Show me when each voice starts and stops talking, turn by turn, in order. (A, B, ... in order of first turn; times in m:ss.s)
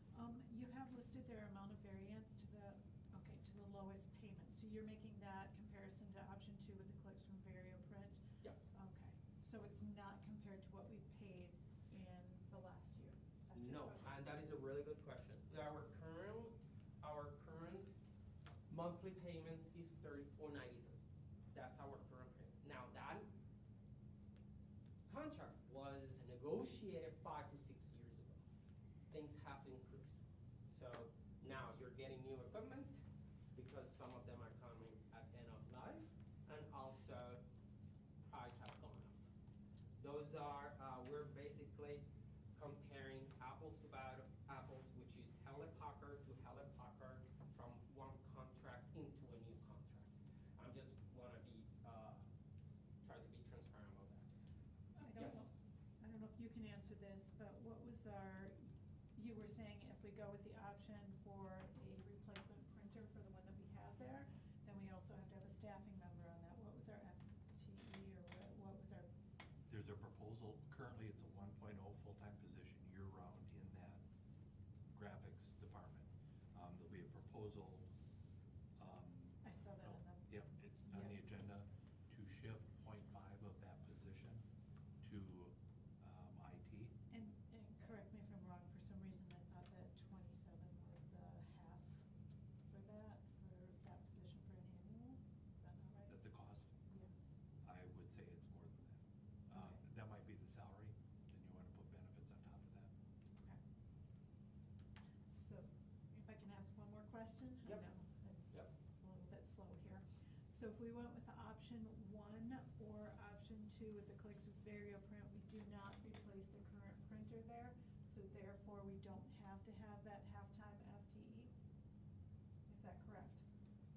0:00.1-0:14.0 A
0:08.4-0:08.7 B
0:13.5-0:17.9 B
0:18.7-0:21.0 B
0:21.5-0:23.3 B
0:25.1-0:28.4 B
0:29.1-0:33.0 B
0:33.5-0:37.4 B
0:38.2-0:39.2 B
0:40.0-0:52.2 B
0:53.0-0:54.3 B
0:55.0-1:09.1 A
0:55.2-0:55.5 B
1:09.7-1:14.0 C
1:14.9-1:17.9 C
1:18.8-1:24.4 C
1:19.4-1:20.2 A
1:20.9-1:21.2 A
1:25.0-1:26.9 C
1:27.1-1:32.0 A
1:32.7-1:36.2 A
1:36.1-1:36.8 C
1:36.9-1:37.3 A
1:37.6-1:42.9 C
1:39.5-1:39.8 A
1:45.3-2:01.5 A
2:02.7-2:03.4 A